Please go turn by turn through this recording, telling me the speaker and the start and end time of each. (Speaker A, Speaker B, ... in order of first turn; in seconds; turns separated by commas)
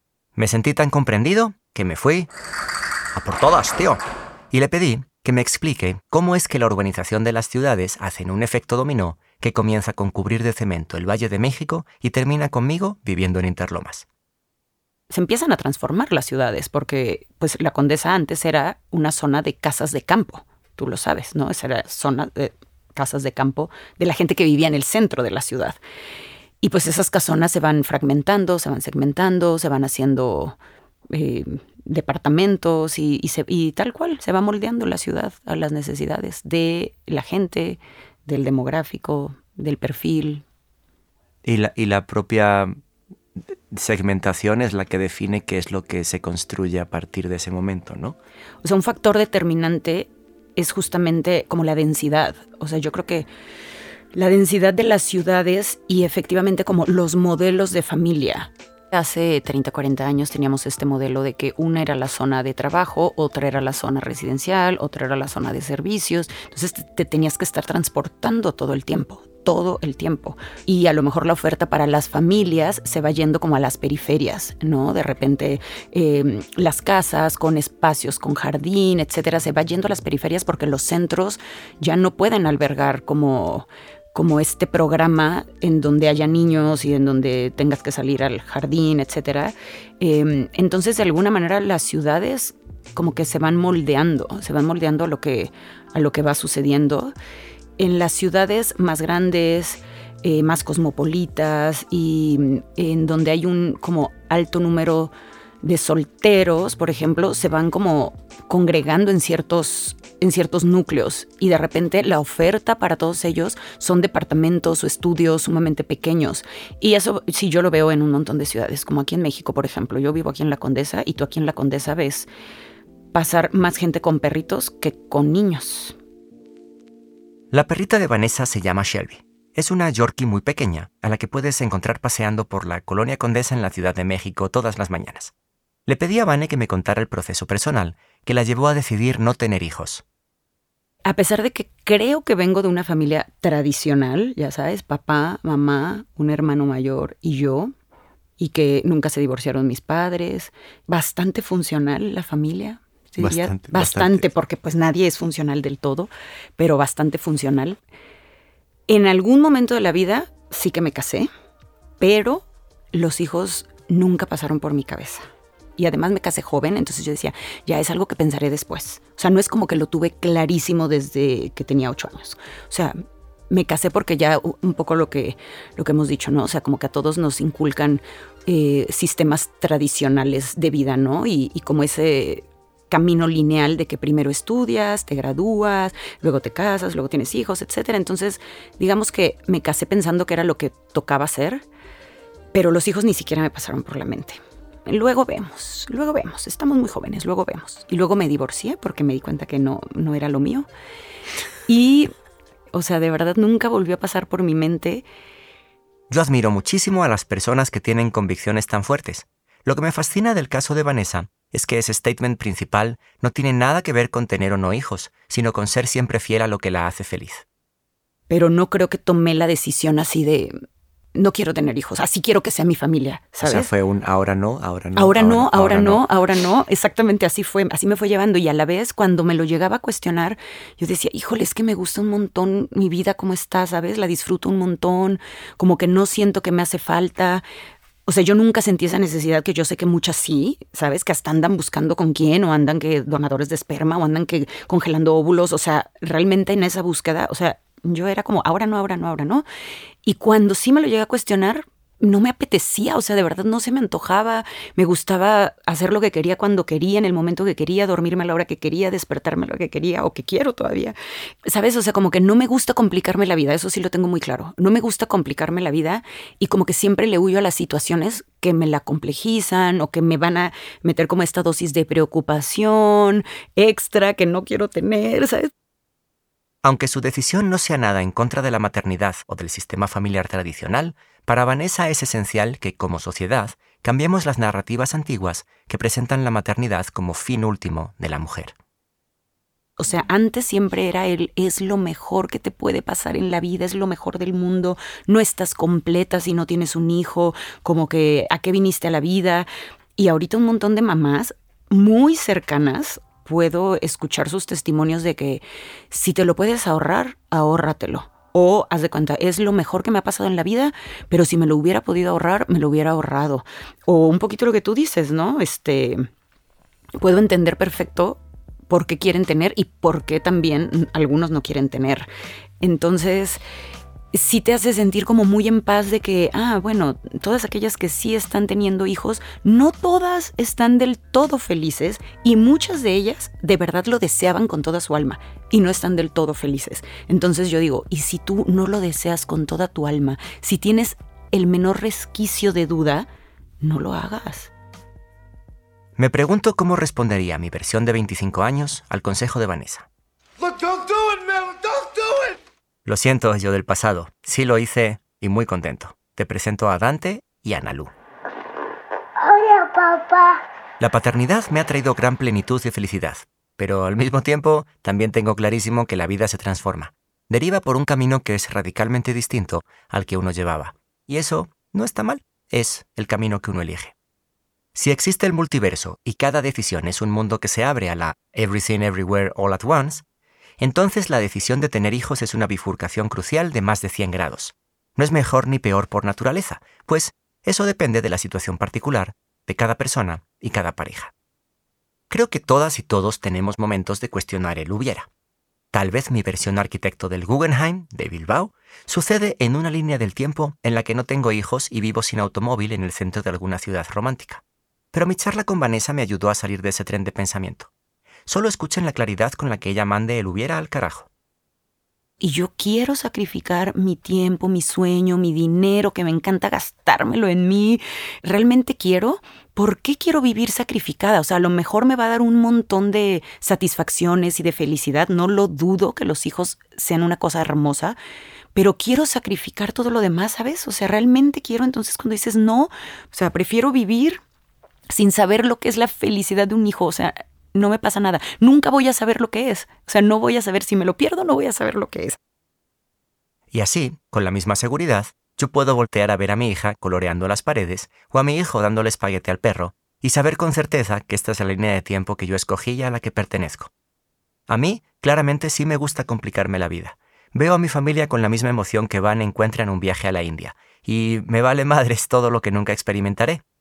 Speaker A: 0.3-2.3, Speaker A: 3.1-14.1, Speaker B: 15.1-25.8, Speaker B: 26.6-30.6, Speaker B: 31.1-40.4, Speaker A: 41.4-42.7, Speaker A: 43.4-48.2, Speaker B: 48.6-53.3, Speaker B: 54.1-97.1, Speaker B: 97.8-122.3, Speaker B: 123.1-126.0, Speaker A: 127.5-135.3, Speaker A: 135.8-140.0, Speaker B: 141.0-147.7, Speaker B: 148.4-157.8, Speaker A: 153.2-154.3, Speaker B: 158.9-161.3, Speaker B: 162.0-173.0, Speaker B: 173.5-191.6, Speaker B: 192.5-200.7, Speaker B: 201.7-202.1, Speaker B: 202.7-205.0, Speaker A: 206.1-217.4, Speaker B: 218.3-220.5, Speaker B: 221.1-223.7, Speaker A: 223.4-226.0, Speaker B: 224.9-237.4, Speaker B: 238.1-249.4, Speaker B: 250.0-275.5, Speaker A: 276.6-288.5, Speaker B: 289.8-316.1, Speaker B: 317.0-322.1, Speaker B: 322.6-323.4, Speaker B: 324.1-343.1, Speaker B: 343.6-344.5, Speaker A: 346.0-349.9, Speaker A: 352.8-357.9, Speaker A: 360.8-373.9, Speaker A: 374.7-380.0, Speaker A: 380.6-391.1, Speaker A: 392.1-395.1, Speaker A: 395.7-404.4, Speaker A: 404.9-407.7, Speaker A: 408.2-411.1, Speaker B: 412.2-428.0, Speaker B: 428.5-434.2, Speaker B: 434.9-442.2, Speaker A: 443.5-453.7, Speaker A: 454.5-463.4